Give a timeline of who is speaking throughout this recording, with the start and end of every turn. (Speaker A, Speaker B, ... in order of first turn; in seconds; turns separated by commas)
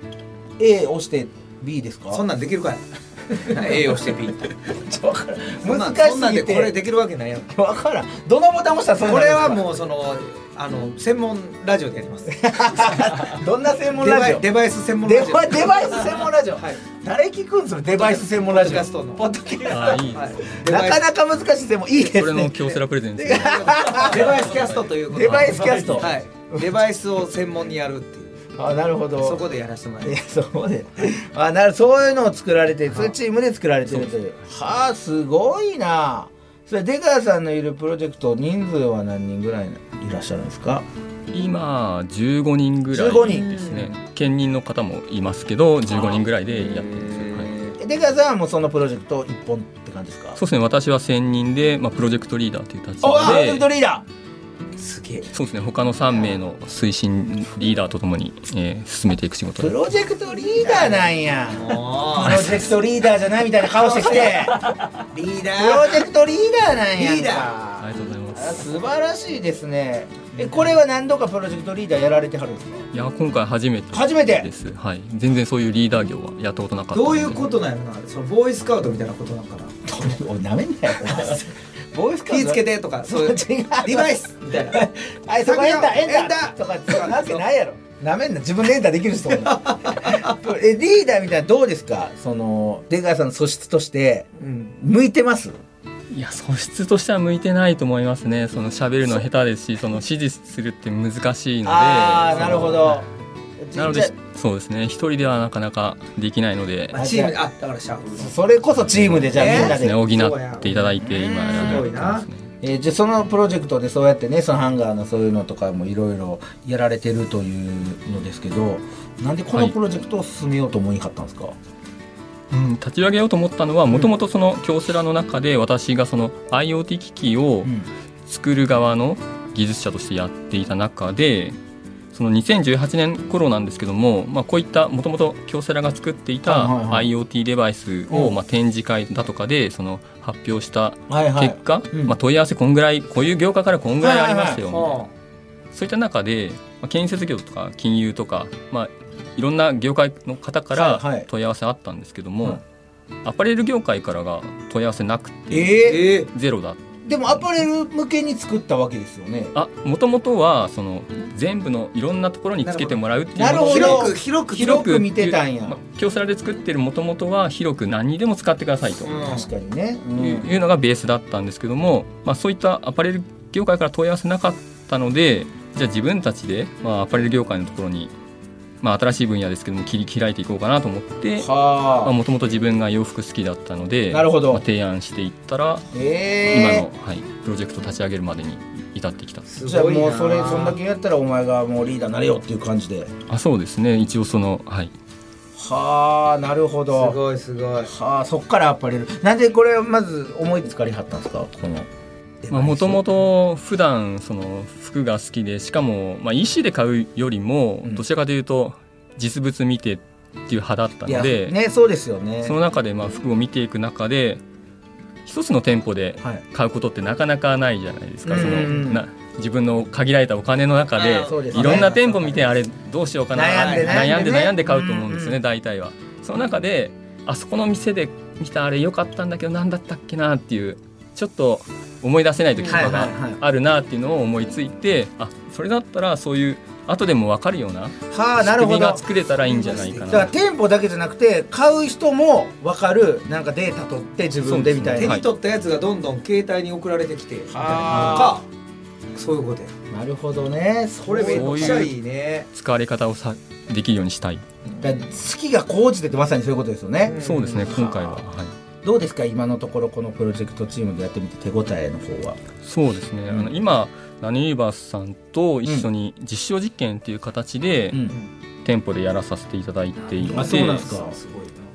Speaker A: 0.6-2.2, Speaker B: 2.1-4.5, Speaker A: 4.7-6.8, Speaker B: 5.6-7.5, Speaker A: 7.5-9.6, Speaker B: 9.0-13.2, Speaker A: 12.3-14.4, Speaker B: 14.0-16.8, Speaker A: 15.0-24.5, Speaker B: 18.0-19.3, Speaker C: 19.7-20.3, Speaker B: 19.8-21.0, Speaker C: 22.0-26.2, Speaker B: 23.2-28.5, Speaker A: 25.1-26.7, Speaker A: 28.6-29.4, Speaker B: 29.2-30.2, Speaker A: 30.0-40.9, Speaker C: 41.3-47.5, Speaker A: 42.9-43.5, Speaker B: 43.2-43.9, Speaker B: 45.9-47.7, Speaker A: 47.8-50.4, Speaker C: 50.4-53.7, Speaker A: 53.0-54.0, Speaker B: 54.8-55.3, Speaker C: 55.3-59.8, Speaker A: 59.6-64.7, Speaker B: 60.6-62.7, Speaker B: 63.6-66.1, Speaker A: 65.5-72.9, Speaker B: 67.0-67.5, Speaker C: 67.8-68.7, Speaker C: 72.9-77.4, Speaker A: 73.9-74.5, Speaker B: 76.9-79.8, Speaker A: 79.9-84.1, Speaker B: 82.3-84.9, Speaker A: 84.7-95.6, Speaker B: 85.4-87.4, Speaker B: 89.3-90.3, Speaker B: 94.4-94.7, Speaker C: 96.1-102.8, Speaker A: 101.6-103.0, Speaker B: 102.3-103.0, Speaker A: 103.6-104.1, Speaker C: 103.7-107.0, Speaker B: 106.9-108.3, Speaker A: 106.9-107.4, Speaker A: 108.2-110.0, Speaker C: 108.7-112.5, Speaker B: 109.3-110.9, Speaker A: 111.0-111.9, Speaker B: 111.5-112.2, Speaker A: 112.6-121.5, Speaker C: 122.5-127.7, Speaker C: 128.2-131.6, Speaker C: 132.1-145.0, Speaker A: 136.4-137.1, Speaker A: 141.1-142.2, Speaker A: 144.0-144.6, Speaker B: 144.6-145.1, Speaker C: 145.7-152.6, Speaker A: 150.7-151.3, Speaker C: 153.2-157.4, Speaker A: 155.5-156.0, Speaker B: 155.7-156.3, Speaker A: 157.0-159.5, Speaker C: 159.5-169.1, Speaker B: 162.6-164.9, Speaker A: 163.3-165.8, Speaker B: 169.0-169.5, Speaker A: 169.2-170.5, Speaker C: 170.1-178.1, Speaker C: 178.8-181.5, Speaker A: 181.4-182.1, Speaker C: 182.0-185.9, Speaker A: 184.1-184.6, Speaker A: 185.9-186.9, Speaker C: 186.5-189.5, Speaker B: 189.5-190.8, Speaker A: 189.6-193.1, Speaker C: 193.3-194.9, Speaker A: 195.6-197.2, Speaker B: 196.9-197.9, Speaker A: 197.8-201.9, Speaker A: 202.4-203.0, Speaker C: 202.5-211.6, Speaker A: 211.1-212.6, Speaker C: 212.4-214.4, Speaker C: 215.2-240.3, Speaker A: 218.2-219.0, Speaker B: 220.9-222.0, Speaker A: 221.2-222.4, Speaker A: 223.3-225.4, Speaker B: 223.5-224.1, Speaker B: 232.6-232.9, Speaker A: 232.7-233.4, Speaker A: 238.1-239.0, Speaker B: 239.4-240.3, Speaker A: 240.1-245.2, Speaker C: 244.4-245.3, Speaker B: 244.9-248.4, Speaker A: 247.5-248.4, Speaker C: 247.9-248.3, Speaker B: 249.1-249.7, Speaker A: 249.9-251.9, Speaker B: 251.0-252.5, Speaker C: 251.3-251.9, Speaker C: 252.5-254.4, Speaker A: 254.8-258.2, Speaker B: 257.0-257.7, Speaker C: 257.2-258.5, Speaker A: 258.8-262.4, Speaker C: 262.6-268.1, Speaker A: 267.9-268.2, Speaker C: 268.6-270.9, Speaker B: 270.2-271.6, Speaker A: 270.2-271.2